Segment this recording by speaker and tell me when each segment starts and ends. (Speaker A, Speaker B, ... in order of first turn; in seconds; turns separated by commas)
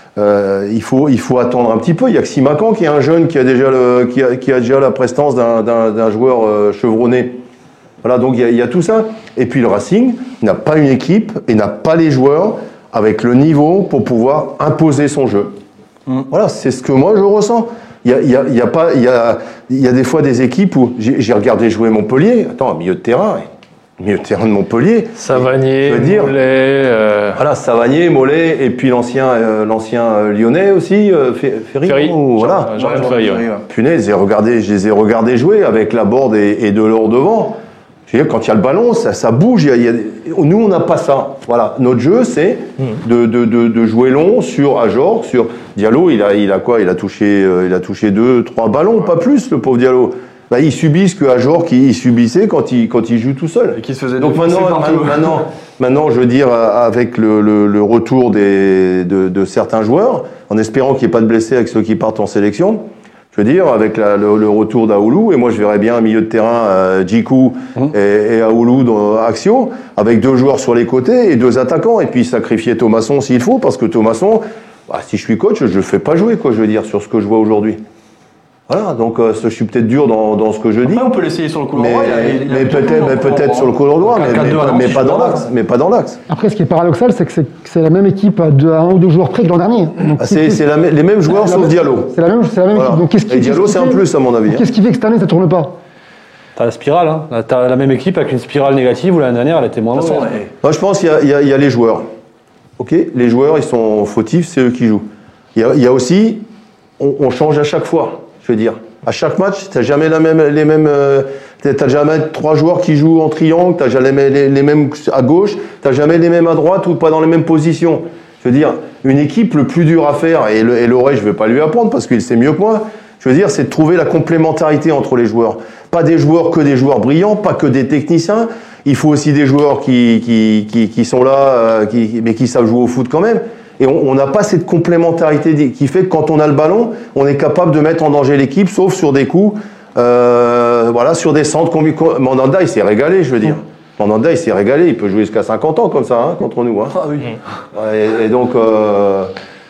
Speaker A: 0.2-7.4, Speaker A: 8.0-15.6, Speaker A: 16.3-23.5, Speaker A: 24.0-26.4, Speaker B: 25.2-27.4, Speaker A: 27.4-33.1, Speaker B: 31.9-33.5, Speaker C: 32.4-33.7, Speaker A: 33.7-77.8, Speaker C: 53.7-55.4, Speaker A: 78.7-81.1, Speaker C: 80.9-85.2, Speaker A: 81.8-86.2, Speaker D: 84.1-85.4, Speaker E: 86.3-90.6, Speaker A: 90.2-92.1, Speaker E: 91.3-95.7, Speaker A: 92.7-94.7, Speaker D: 96.6-100.4, Speaker C: 99.9-100.5, Speaker A: 100.6-102.1, Speaker A: 102.8-106.5, Speaker A: 107.0-147.1, Speaker C: 147.0-147.3, Speaker A: 147.7-149.3